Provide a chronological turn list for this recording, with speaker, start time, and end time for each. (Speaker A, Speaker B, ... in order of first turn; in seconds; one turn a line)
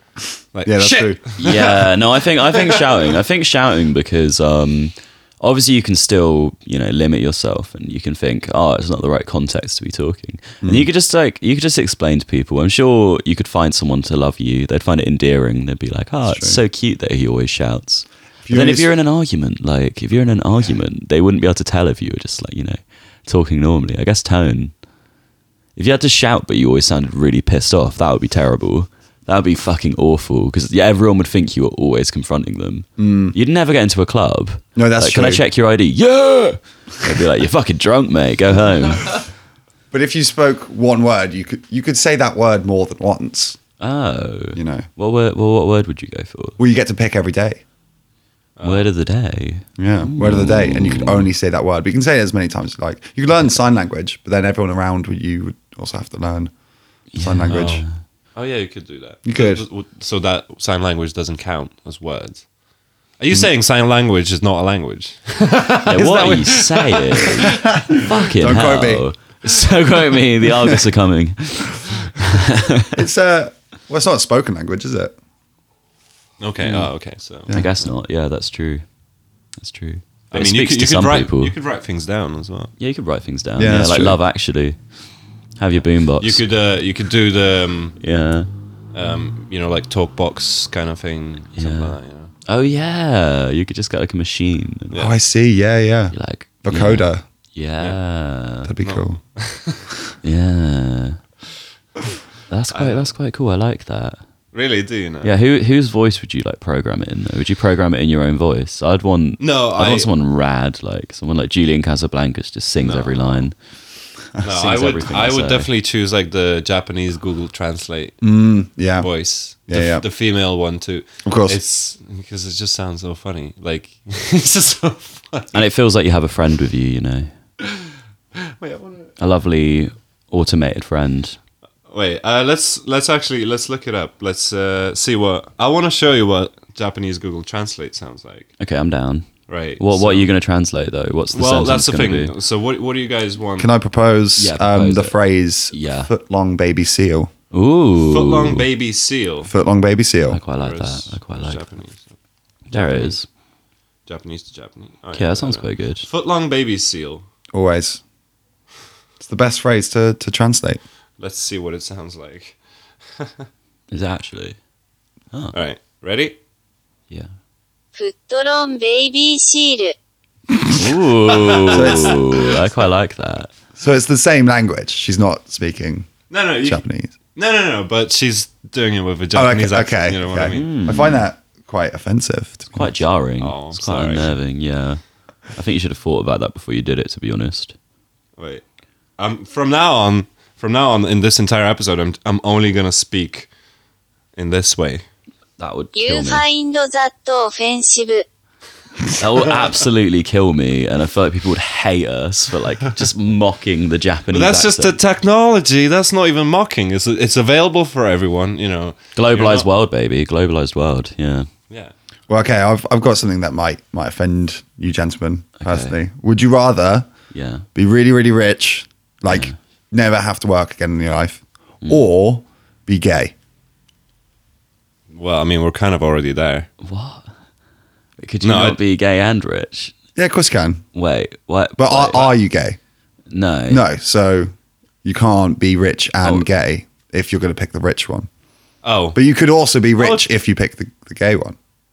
Speaker A: 0.5-3.1
Speaker B: 0.7-1.2
Speaker C: 1.4-24.7
Speaker B: 10.6-10.9
Speaker B: 16.3-16.6
Speaker B: 18.5-18.9
Speaker C: 25.8-39.2
Speaker B: 33.0-33.4
Speaker B: 34.8-35.4
Speaker B: 39.9-43.6
Speaker C: 43.8-46.6
Speaker B: 44.6-44.9
Speaker B: 46.6-47.6
Speaker A: 48.6-48.9
Speaker C: 48.6-51.3
Speaker B: 49.8-56.5
Speaker C: 57.1-57.9
Speaker B: 57.2-57.8
Speaker A: 57.5-57.8
Speaker A: 58.4-62.5
Speaker B: 59.3-59.6
Speaker A: 63.2-67.6
Speaker C: 65.9-73.0
Speaker B: 67.7-69.1
Speaker B: 73.0-75.2
Speaker A: 76.4-77.9
Speaker C: 76.6-76.9
Speaker C: 77.5-78.8
Speaker C: 79.6-81.5
Speaker A: 80.3-82.7
Speaker C: 82.8-84.8
Speaker B: 83.6-84.2
Speaker C: 85.6-86.4
Speaker A: 86.2-88.0
Speaker C: 88.0-88.5
Speaker A: 88.9-92.3
Speaker C: 91.6-95.0
Speaker B: 95.0-97.2
Speaker C: 96.1-98.7
Speaker B: 98.7-99.2
Speaker A: 98.8-99.9
Speaker C: 100.2-101.2
Speaker C: 102.5-104.2
Speaker A: 102.7-103.1
Speaker A: 104.5-105.3
Speaker C: 105.2-113.5
Speaker A: 109.4-110.1
Speaker A: 112.8-113.4
Speaker A: 114.4-118.3
Speaker C: 114.5-115.7
Speaker B: 118.2-119.1
Speaker A: 119.0-125.7
Speaker B: 119.7-120.0
Speaker B: 121.2-121.6
Speaker C: 125.5-127.3
Speaker A: 127.6-127.9
Speaker A: 128.5-129.1
Speaker C: 129.2-131.4
Speaker A: 131.9-138.5
Speaker C: 138.6-142.3
Speaker A: 139.5-140.3
Speaker A: 141.3-143.7
Speaker B: 143.6-147.3
Speaker C: 144.4-145.2
Speaker C: 145.7-146.1
Speaker C: 147.5-148.7
Speaker A: 148.0-149.5
Speaker B: 149.5-150.4
Speaker C: 150.3-151.6
Speaker A: 150.6-152.1
Speaker C: 152.7-153.3
Speaker A: 152.7-153.2
Speaker A: 154.1-157.2
Speaker C: 155.1-156.1
Speaker B: 157.5-158.0
Speaker B: 159.2-160.8
Speaker A: 161.2-162.6
Speaker A: 163.2-163.4
Speaker C: 163.9-164.6
Speaker A: 165.5-166.4
Speaker D: 167.9-169.9
Speaker B: 170.5-170.9
Speaker C: 170.7-173.5
Speaker A: 171.3-172.5
Speaker B: 171.7-172.2
Speaker B: 173.8-177.2
Speaker A: 176.3-176.8
Speaker A: 177.3-180.7
Speaker B: 179.3-183.0
Speaker C: 180.5-181.3
Speaker C: 182.7-185.0
Speaker A: 183.4-184.4
Speaker C: 185.5-187.8
Speaker A: 188.4-188.6
Speaker A: 189.2-193.5
Speaker A: 194.3-195.0
Speaker C: 195.6-196.4
Speaker D: 195.9-198.3
Speaker C: 199.2-205.0
Speaker A: 204.3-209.7
Speaker C: 209.2-211.5
Speaker B: 212.3-217.1
Speaker C: 215.6-216.0
Speaker C: 217.3-217.7
Speaker B: 217.8-223.3
Speaker C: 219.3-219.6
Speaker A: 225.1-226.7
Speaker C: 226.8-227.3
Speaker C: 228.2-229.9
Speaker A: 228.4-228.8
Speaker B: 230.2-230.9
Speaker C: 230.9-232.3
Speaker B: 231.8-232.8
Speaker C: 233.3-233.8
Speaker B: 233.7-234.5
Speaker B: 235.0-238.3
Speaker C: 236.2-236.5
Speaker A: 238.8-239.2
Speaker B: 239.2-241.6
Speaker A: 240.0-240.3